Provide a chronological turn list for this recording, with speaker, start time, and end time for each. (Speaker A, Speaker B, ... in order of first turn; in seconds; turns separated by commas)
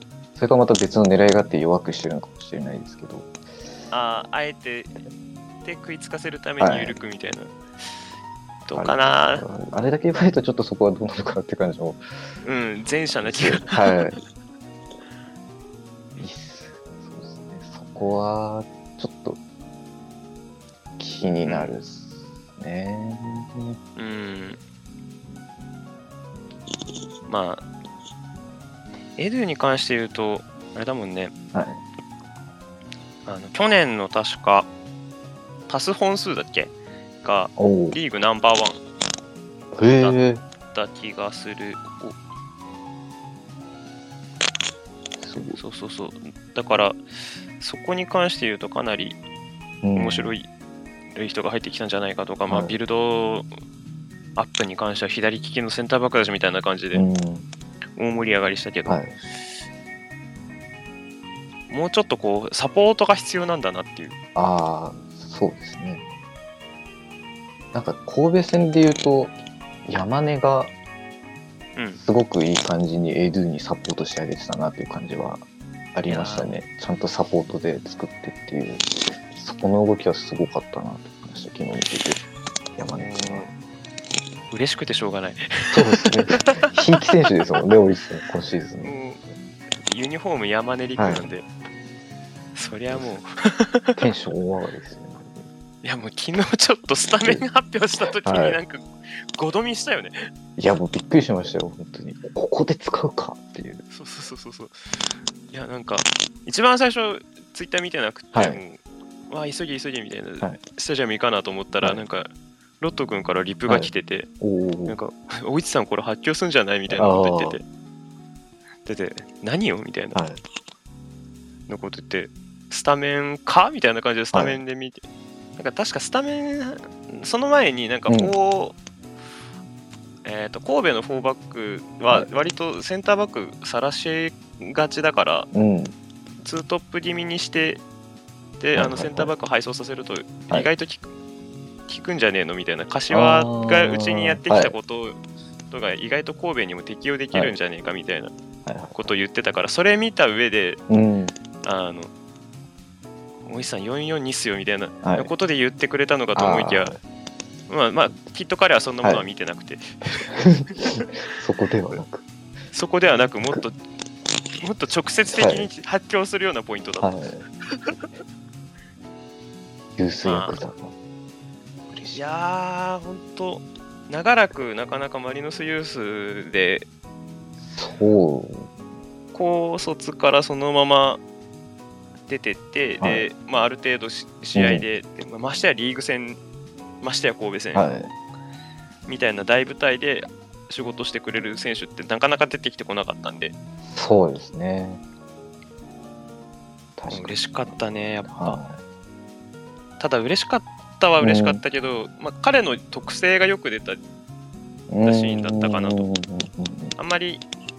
Speaker A: 0.4-3.3, Speaker B: 3.9-5.0, Speaker B: 5.7-7.6, Speaker A: 6.6-7.0, Speaker B: 8.7-9.4, Speaker A: 8.7-12.0, Speaker B: 12.4-14.2, Speaker A: 13.2-14.2, Speaker A: 16.2-19.4, Speaker A: 21.0-23.8, Speaker B: 21.4-21.7, Speaker B: 24.0-24.6, Speaker B: 27.3-27.6, Speaker B: 29.2-31.3, Speaker A: 31.5-31.8, Speaker B: 33.3-34.7, Speaker B: 35.7-38.8, Speaker A: 37.6-38.0, Speaker A: 39.7-40.4, Speaker B: 40.7-42.2, Speaker A: 45.2-45.6, Speaker B: 45.6-47.0, Speaker B: 47.6-49.2, Speaker A: 49.8-50.4, Speaker B: 49.9-50.5, Speaker B: 51.1-53.5, Speaker A: 52.5-52.8, Speaker B: 54.4-57.0, Speaker A: 56.9-57.5, Speaker B: 58.0-59.0, Speaker A: 58.9-59.1, Speaker B: 61.7-64.2, Speaker A: 64.3-66.0, Speaker A: 67.7-69.4, Speaker A: 69.9-70.7, Speaker B: 71.8-72.0, Speaker A: 72.0-82.2, Speaker B: 76.1-76.6, Speaker A: 82.8-83.5, Speaker B: 83.0-83.5, Speaker B: 84.5-86.7, Speaker A: 85.7-88.9, Speaker B: 88.8-89.2, Speaker B: 89.8-91.5, Speaker A: 91.0-91.3, Speaker B: 92.5-94.0, Speaker A: 92.9-93.2, Speaker A: 94.0-95.5, Speaker B: 95.8-100.3, Speaker A: 98.0-98.6, Speaker A: 100.6-103.8, Speaker B: 103.9-104.9, Speaker B: 105.5-112.3, Speaker A: 108.3-108.6, Speaker B: 112.8-114.3, Speaker A: 113.7-115.0, Speaker B: 114.9-117.7, Speaker A: 116.9-117.6, Speaker B: 118.8-120.2, Speaker A: 120.1-120.4, Speaker B: 121.7-125.0, Speaker A: 124.3-124.6, Speaker B: 125.6-128.8, Speaker A: 128.1-128.3, Speaker B: 130.2-135.5, Speaker A: 135.5-135.9, Speaker B: 136.4-137.8, Speaker B: 138.6-141.1, Speaker A: 138.8-139.3, Speaker B: 141.9-145.2, Speaker A: 143.1-144.8, Speaker B: 145.7-148.3, Speaker A: 148.7-149.1, Speaker B: 148.9-150.8, Speaker A: 150.9-151.3, Speaker B: 151.6-152.1, Speaker B: 153.5-156.9, Speaker A: 155.0-155.3, Speaker A: 156.3-157.0, Speaker B: 157.7-161.1, Speaker A: 159.0-159.3, Speaker A: 160.0-162.3, Speaker B: 162.7-163.8, Speaker B: 164.6-167.1, Speaker A: 165.3-165.7, Speaker A: 167.0-167.4, Speaker A: 170.0-170.9, Speaker B: 170.2-170.6, Speaker A: 171.9-172.2, Speaker B: 172.1-176.9, Speaker A: 177.6-178.7, Speaker B: 179.3-181.2, Speaker B: 182.3-186.4, Speaker A: 183.0-183.3, Speaker A: 184.5-184.9, Speaker B: 187.0-187.9, Speaker A: 187.7-188.1, Speaker B: 189.1-193.5, Speaker A: 193.8-195.0, Speaker A: 197.0-198.8, Speaker B: 197.1-198.6, Speaker B: 200.0-204.0, Speaker A: 201.2-201.6, Speaker A: 204.9-206.9, Speaker B: 205.0-206.1, Speaker B: 207.0-207.4